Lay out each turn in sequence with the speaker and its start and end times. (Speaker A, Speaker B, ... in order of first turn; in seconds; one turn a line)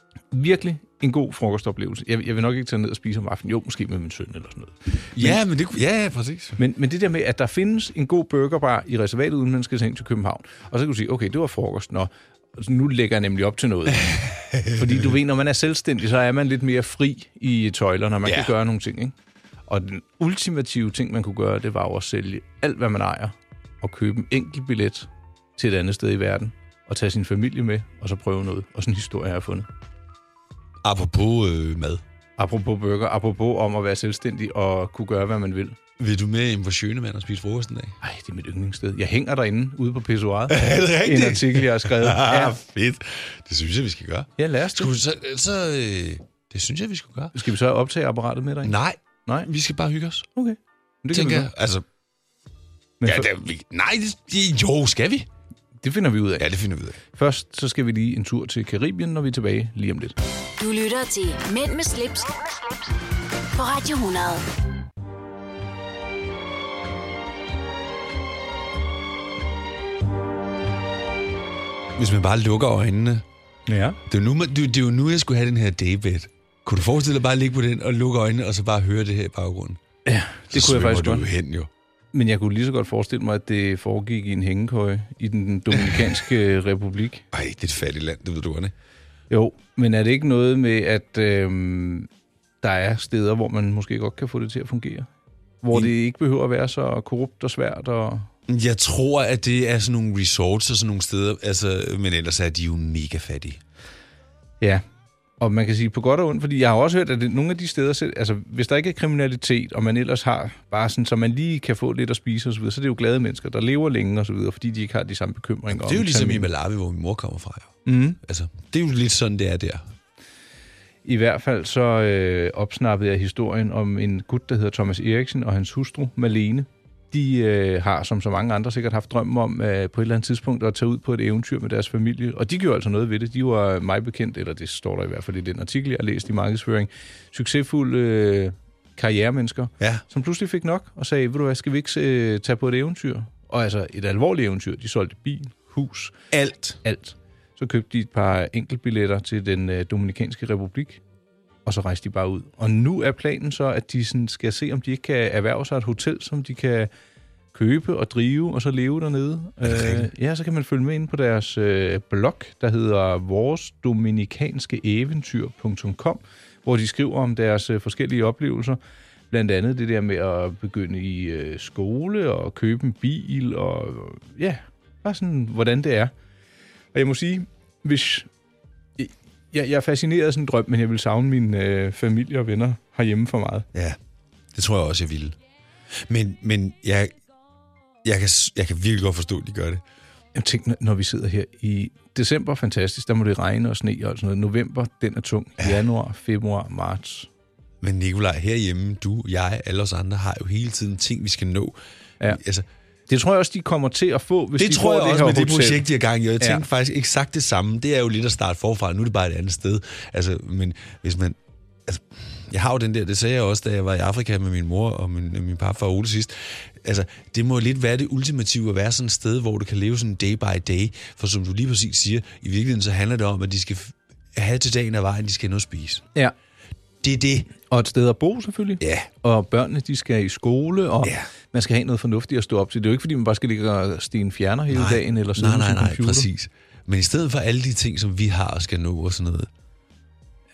Speaker A: 0.3-5.4
Speaker B: 5.1-6.6
Speaker A: 6.6-19.1
Speaker B: 14.1-15.1
Speaker B: 18.2-18.5
Speaker A: 19.7-29.7
Speaker B: 30.8-32.0
Speaker A: 32.4-35.8
Speaker B: 36.0-38.0
Speaker A: 38.0-42.5
Speaker B: 40.5-47.3
Speaker A: 44.4-44.9
Speaker A: 47.3-49.5
Speaker B: 48.6-50.3
Speaker A: 50.4-51.5
Speaker B: 51.1-51.8
Speaker A: 53.0-53.3
Speaker B: 53.0-55.3
Speaker A: 55.8-56.5
Speaker B: 56.4-57.0
Speaker A: 57.1-60.1
Speaker C: 60.6-62.5
Speaker C: 63.5-64.4
Speaker B: 72.0-73.2
Speaker A: 73.7-74.0
Speaker B: 74.1-79.8
Speaker A: 80.0-81.3
Speaker B: 80.5-81.7
Speaker A: 82.1-87.2
Speaker B: 87.3-88.7
Speaker A: 89.3-92.1
Speaker A: 92.6-95.1
Speaker A: 95.6-98.3
Speaker B: 98.5-103.6
Speaker A: 105.4-116.5
Speaker B: 115.7-119.8
Speaker A: 117.8-118.2
Speaker A: 121.0-146.2
Speaker B: 146.3-146.8
Speaker A: 146.8-151.0
Speaker A: 151.6-156.9
Speaker A: 157.5-168.8
Speaker B: 159.6-160.1
Speaker A: 169.3-176.1
Speaker A: 176.9-178.3
Speaker A: 179.0-183.7
Speaker B: 184.5-185.3
Speaker B: 186.0-187.1
Speaker B: 188.0-189.8
Speaker A: 190.3-197.3
Speaker B: 197.8-201.8
Speaker B: 202.3-202.7
Speaker A: 203.1-205.8
Speaker B: 204.6-226.0
Speaker B: 227.0-227.5
Speaker A: 227.6-236.3
Speaker B: 228.8-229.1
Speaker B: 234.7-239.5